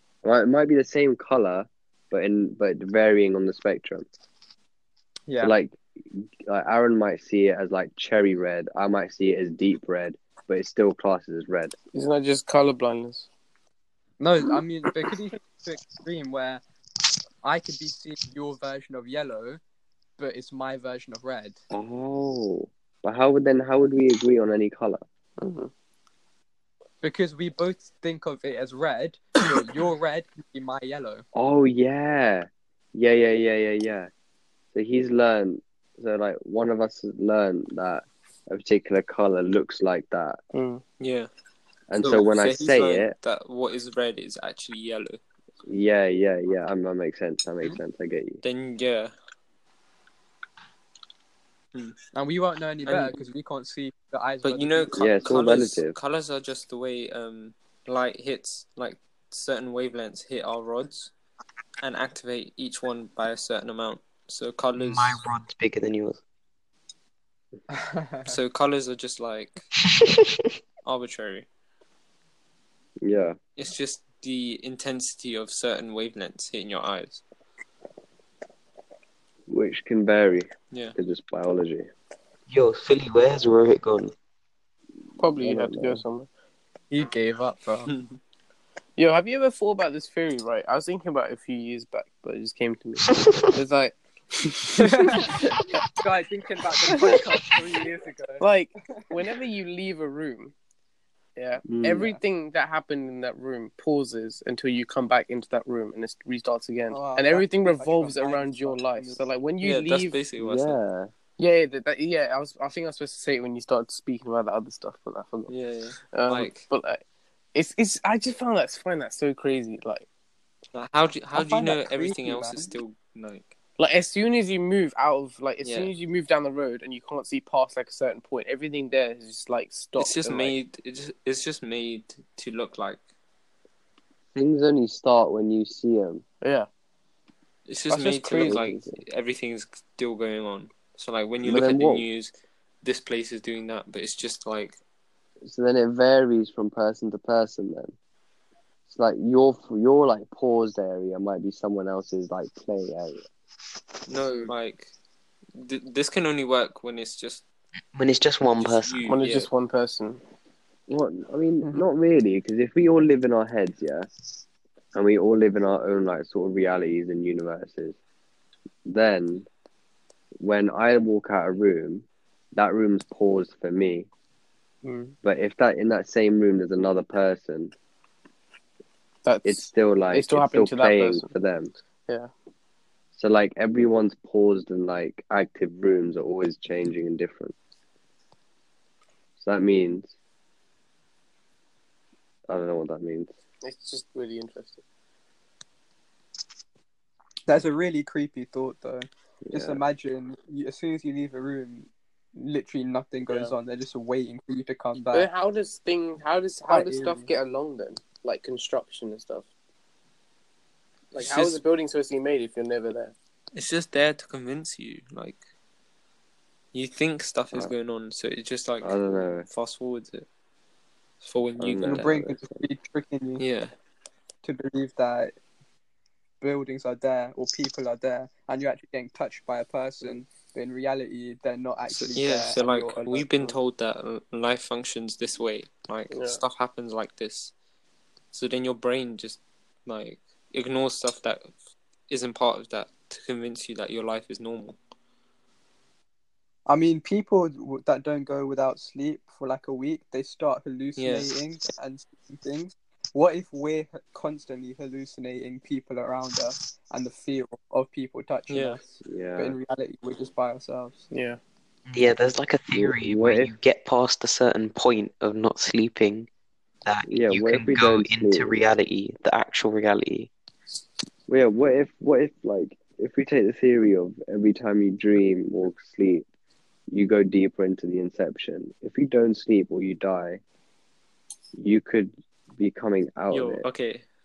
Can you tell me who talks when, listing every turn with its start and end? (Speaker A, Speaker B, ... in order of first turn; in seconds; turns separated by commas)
Speaker A: 0.2-4.0, Speaker B: 5.3-5.5, Speaker A: 5.4-11.8, Speaker C: 11.9-13.3, Speaker B: 14.2-16.6, Speaker B: 17.4-19.6, Speaker B: 20.2-21.6, Speaker A: 21.7-25.0, Speaker C: 25.4-25.7, Speaker B: 27.0-31.2, Speaker A: 31.3-34.1, Speaker A: 34.7-40.4, Speaker C: 40.5-40.8, Speaker D: 41.0-41.3, Speaker A: 41.9-43.1, Speaker D: 42.0-45.2, Speaker A: 45.6-48.4, Speaker D: 48.4-49.1, Speaker B: 52.1-55.0, Speaker D: 52.9-53.1, Speaker D: 54.4-61.1, Speaker A: 54.9-56.0, Speaker D: 61.8-65.2, Speaker E: 64.8-66.2, Speaker B: 67.7-68.3, Speaker D: 68.2-69.6, Speaker E: 70.0-70.2, Speaker D: 70.8-71.5, Speaker A: 73.0-73.4, Speaker D: 73.5-77.2, Speaker A: 79.5-81.9, Speaker D: 80.7-81.0, Speaker E: 82.5-84.1, Speaker C: 85.2-86.3, Speaker A: 85.4-86.0, Speaker B: 86.9-87.9, Speaker D: 87.9-88.2, Speaker C: 89.0-95.8, Speaker B: 94.8-98.5, Speaker C: 96.9-97.4, Speaker C: 98.4-100.5, Speaker C: 101.3-110.2, Speaker A: 101.6-102.1, Speaker B: 106.9-109.2, Speaker D: 109.6-110.8, Speaker A: 110.4-111.1, Speaker C: 111.4-117.0, Speaker D: 115.5-116.7, Speaker C: 117.5-120.0, Speaker D: 120.7-123.5, Speaker B: 121.3-122.7, Speaker C: 123.8-130.6, Speaker D: 125.6-125.9, Speaker D: 129.9-133.0, Speaker A: 134.3-136.2, Speaker C: 136.4-136.7, Speaker D: 137.7-144.8, Speaker C: 137.9-138.6, Speaker A: 138.4-139.0, Speaker A: 141.4-142.1, Speaker A: 145.4-147.9, Speaker A: 148.9-153.2, Speaker D: 154.1-154.9, Speaker D: 155.6-157.4, Speaker E: 157.9-159.0, Speaker D: 158.6-159.5, Speaker C: 159.1-160.2, Speaker A: 160.9-164.1, Speaker A: 164.9-168.0, Speaker A: 168.8-169.4, Speaker A: 170.4-174.1, Speaker C: 174.8-175.1, Speaker A: 175.2-177.7, Speaker C: 179.2-181.3, Speaker A: 179.4-181.7, Speaker A: 183.1-187.5, Speaker A: 189.4-190.1, Speaker A: 192.5-193.3, Speaker C: 193.6-194.8, Speaker B: 197.5-205.3, Speaker A: 199.4-199.8, Speaker C: 203.3-203.5, Speaker C: 205.1-209.5, Speaker B: 206.7-207.3, Speaker C: 211.1-213.1, Speaker D: 211.1-211.6, Speaker D: 213.5-215.4, Speaker D: 216.7-220.3, Speaker A: 218.8-219.5, Speaker D: 221.2-222.1, Speaker A: 221.6-222.6, Speaker B: 221.8-223.4, Speaker D: 223.4-223.7, Speaker B: 224.4-225.3, Speaker B: 226.4-233.5, Speaker D: 231.9-237.5, Speaker C: 236.1-236.4, Speaker D: 238.3-241.5, Speaker D: 242.1-244.8, Speaker B: 246.7-258.8, Speaker D: 251.0-251.3, Speaker D: 258.5-258.8, Speaker A: 259.0-259.6, Speaker B: 259.4-261.0, Speaker C: 261.1-261.4, Speaker E: 261.9-266.3, Speaker A: 262.7-263.5, Speaker E: 266.8-270.3, Speaker A: 267.1-268.6, Speaker A: 271.3-276.2, Speaker A: 276.9-280.4, Speaker A: 281.6-283.6, Speaker D: 283.3-284.0